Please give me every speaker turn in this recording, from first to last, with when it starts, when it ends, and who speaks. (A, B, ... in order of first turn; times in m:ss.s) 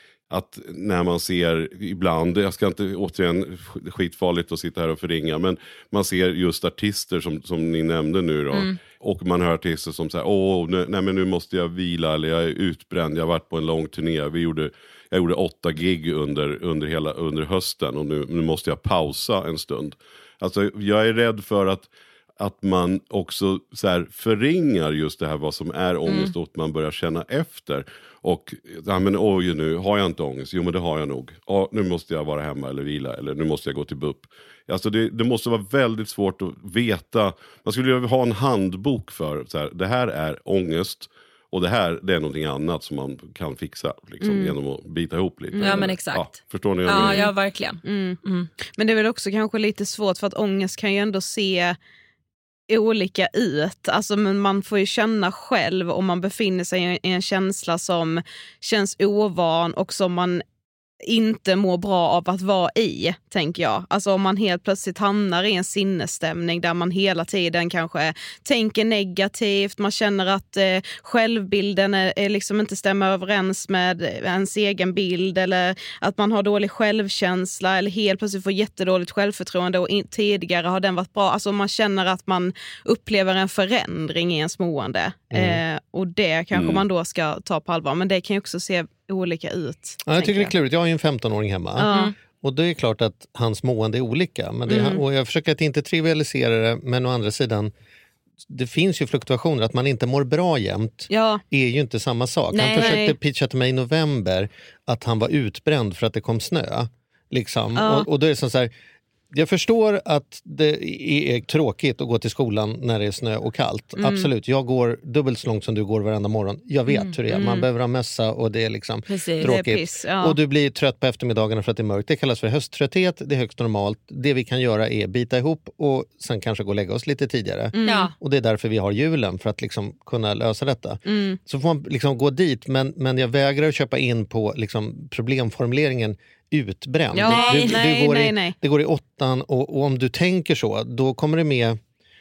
0:00.3-0:21.9 A
0:22.4-0:47.2 A
0:44.2-0:44.5 B
0:45.5-0:45.9 B
0:45.6-0:46.3 C
0:46.8-0:48.5 C
0:47.0-0:47.3 B
0:47.8-0:51.8 B
0:52.7-1:00.4 B
1:01.1-1:30.5 B
1:25.3-1:25.6 D
1:26.5-1:26.8 A
1:30.0-1:37.7 D
1:31.8-1:32.1 B
1:31.8-1:32.1 C
1:34.7-1:35.0 B
1:38.5-1:48.7 D
1:41.1-1:41.4 B
1:42.5-1:43.1 C
1:42.7-1:43.1 B
1:47.8-1:48.0 B
1:49.3-2:21.8 D
1:54.0-1:54.3 B
1:57.3-1:57.6 B
1:59.1-1:59.5 C
1:59.4-2:00.4 B
2:07.7-2:08.1 B
2:07.8-2:08.1 C
2:11.0-2:11.4 B
2:17.1-2:18.6 B
2:17.2-2:17.9 C